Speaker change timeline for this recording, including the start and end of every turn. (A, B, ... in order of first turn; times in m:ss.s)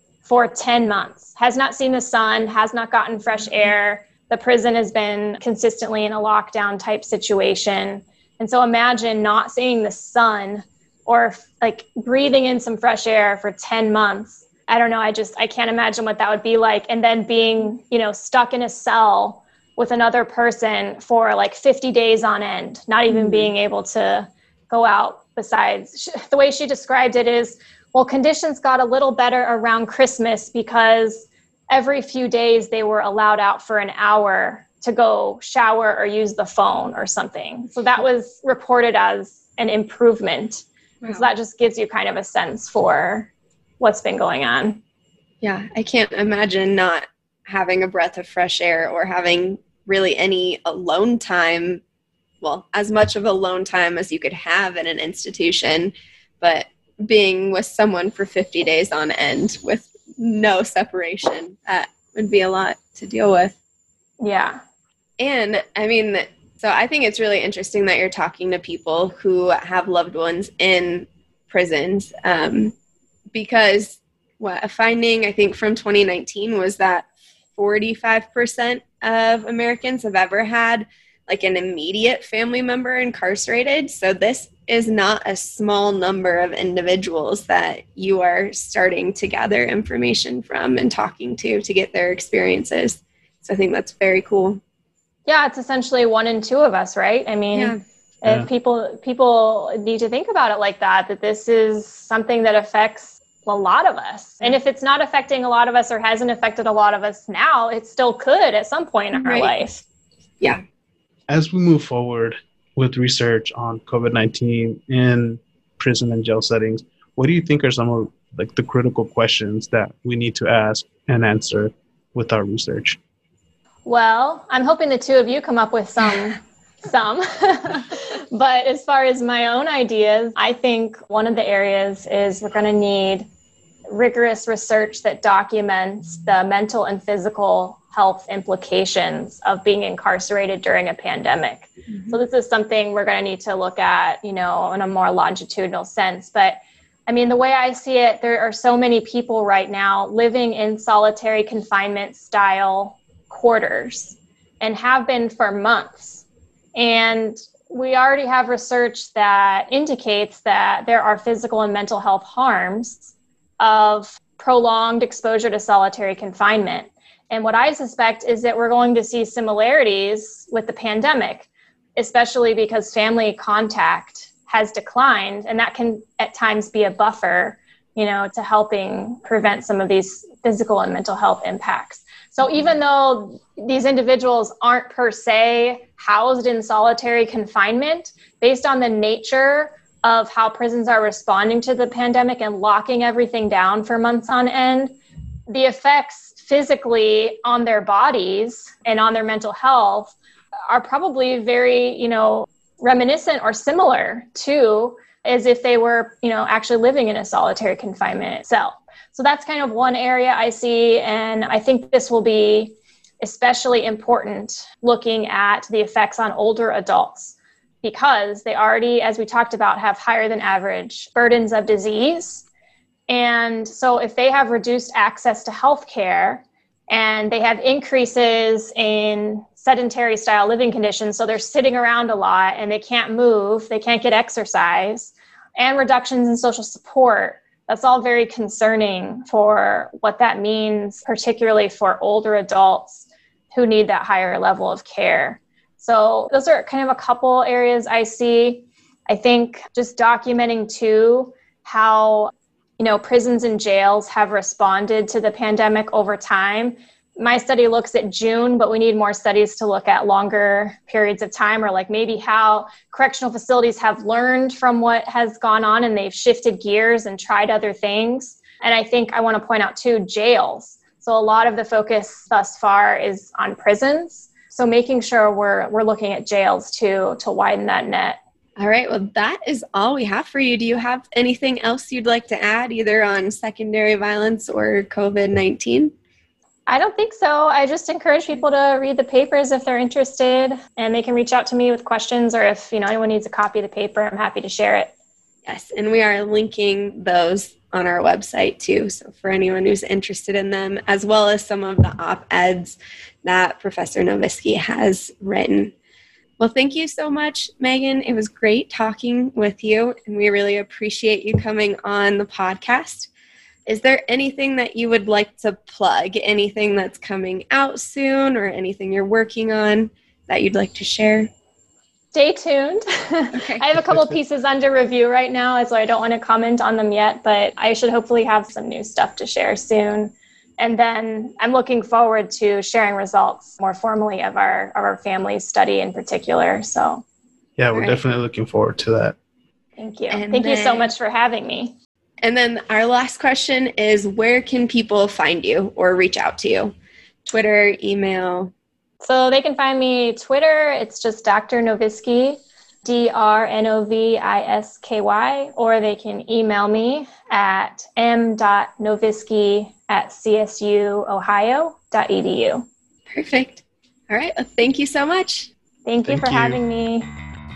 0:00.2-0:44.8 A
0:23.1-0:23.5 B
0:41.0-0:41.3 B
0:45.4-0:51.8 B
0:52.4-1:03.5 B
1:04.2-1:04.6 A
1:05.2-1:12.7 B
1:13.3-1:34.6 B
1:35.3-1:49.8 A
1:37.5-1:37.8 B
1:49.2-1:49.5 B
1:51.3-2:03.0 C
2:03.8-2:13.2 A
2:13.9-3:14.9 A
2:21.9-2:22.2 B
3:15.5-3:20.1 A
3:20.7-3:42.4 A
3:43.1-4:38.2 A
4:38.6-4:45.9 B
4:46.7-4:54.9 A
4:55.4-5:05.7 B
5:06.4-5:13.1 B
5:13.6-5:21.3 B
5:22.1-5:37.0 A
5:23.3-5:23.8 B
5:37.6-5:39.2 C
5:37.7-5:38.0 A
5:39.8-5:41.7 A
5:40.1-5:40.9 B
5:42.2-5:46.7 B
5:47.2-5:48.5 B
5:49.0-6:02.6 A
6:03.1-6:05.5 B
6:05.8-6:07.1 A
6:06.0-6:06.6 C